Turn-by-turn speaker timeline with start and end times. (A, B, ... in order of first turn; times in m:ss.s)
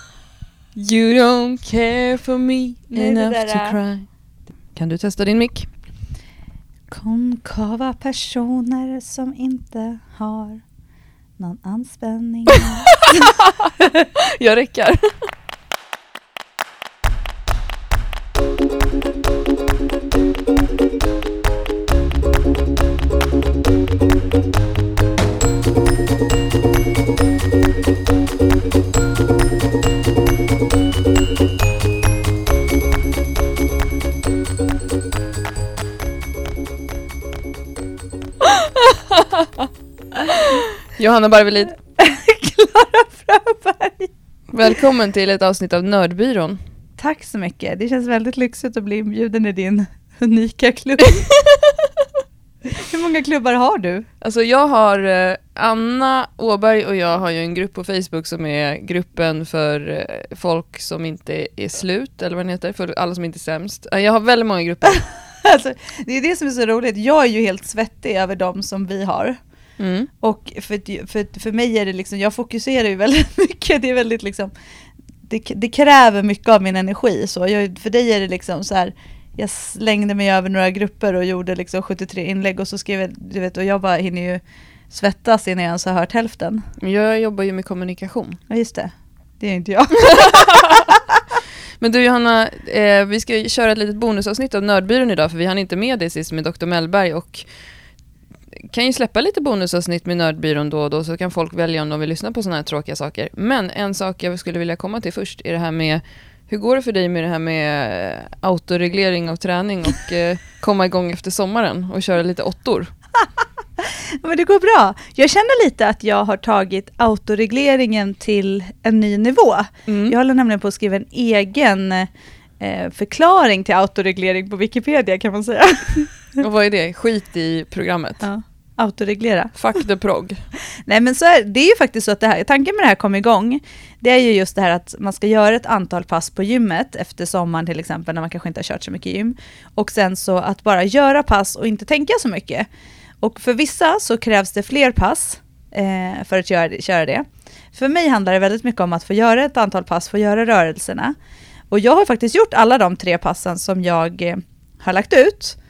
0:00.7-0:04.1 A
0:02.9-0:03.8 B
0:04.7-0:05.7 A
0:06.9-0:10.6 B
0:11.4-0:12.9 B
0:12.6-0:15.1 A
0:38.8-0:39.4 A
0:40.2-0:41.8 A
0:42.0-0:44.1 B
0:44.5-0:46.6 A
0:47.0-0:51.3 B
0:52.8-0:54.0 B
0:54.2-1:05.0 A
1:04.9-1:09.4 B
1:09.8-1:10.1 A
1:10.2-1:14.5 B
1:15.3-1:26.6 B
1:26.8-1:28.4 A
1:28.5-1:31.0 B
1:30.2-1:30.8 A
1:31.8-1:37.5 A
1:38.7-1:52.9 A
1:53.2-2:02.1 B
1:59.9-2:00.1 A
2:02.6-2:06.4 B
2:06.4-2:08.2 A
2:08.2-2:09.6 B
2:09.5-2:10.4 A
2:10.8-2:22.7 B
2:23.2-2:31.1 B
2:31.7-2:35.6 B